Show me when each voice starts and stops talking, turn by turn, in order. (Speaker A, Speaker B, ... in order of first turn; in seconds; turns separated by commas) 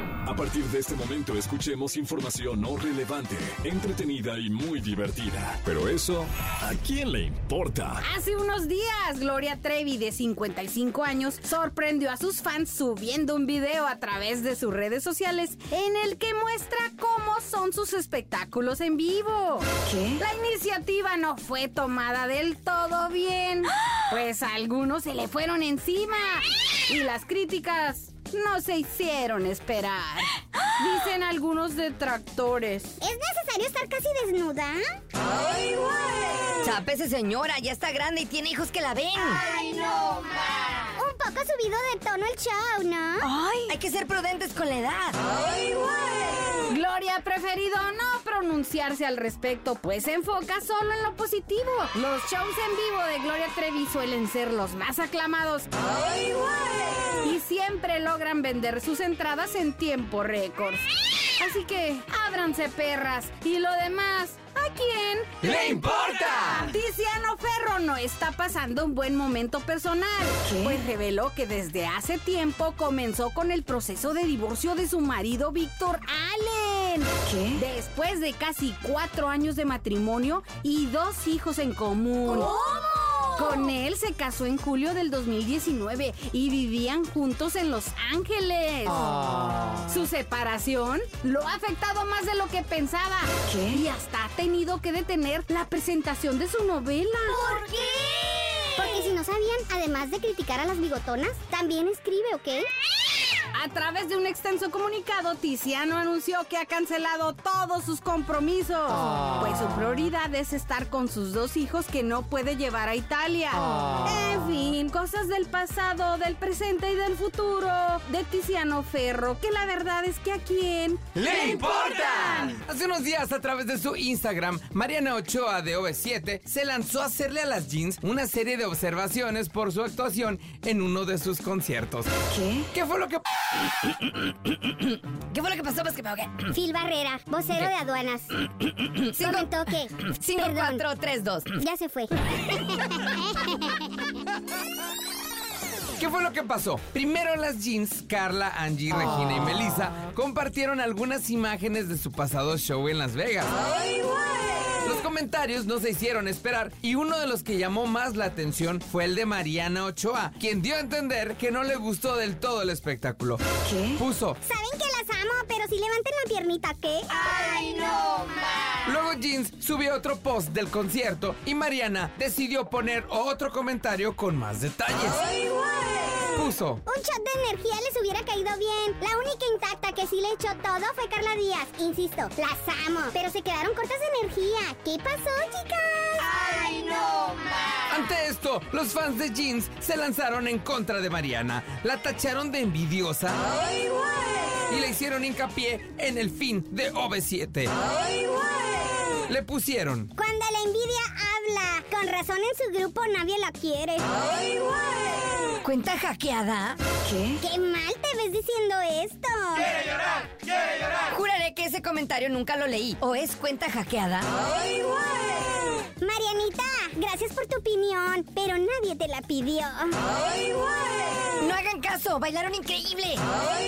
Speaker A: 0.2-8.0, Speaker B: 8.0-33.0, Speaker C: 33.0-34.8, Speaker D: 36.6-39.4, Speaker C: 39.5-40.1, Speaker C: 41.0-43.3, Speaker D: 43.2-45.2, Speaker B: 46.7-55.9, Speaker B: 57.2-97.5, Speaker E: 65.4-66.7, Speaker C: 98.8-102.7, Speaker B: 103.5-122.5, Speaker E: 121.1-133.2, Speaker D: 135.3-136.5, Speaker C: 136.5-138.3, Speaker D: 139.1-139.5, Speaker C: 139.1-140.8, Speaker D: 140.2-141.5, Speaker C: 141.6-143.5, Speaker E: 145.9-153.5, Speaker E: 154.8-164.4, Speaker C: 164.4-168.5, Speaker E: 168.8-175.3, Speaker E: 176.3-176.8, Speaker C: 176.8-187.1, Speaker E: 187.8-193.4, Speaker E: 194.7-197.7, Speaker E: 199.3-200.1, Speaker C: 200.1-204.4, Speaker D: 205.6-206.8, Speaker C: 207.4-210.1, Speaker D: 211.1-214.3, Speaker C: 216.0-220.0, Speaker D: 221.4-223.2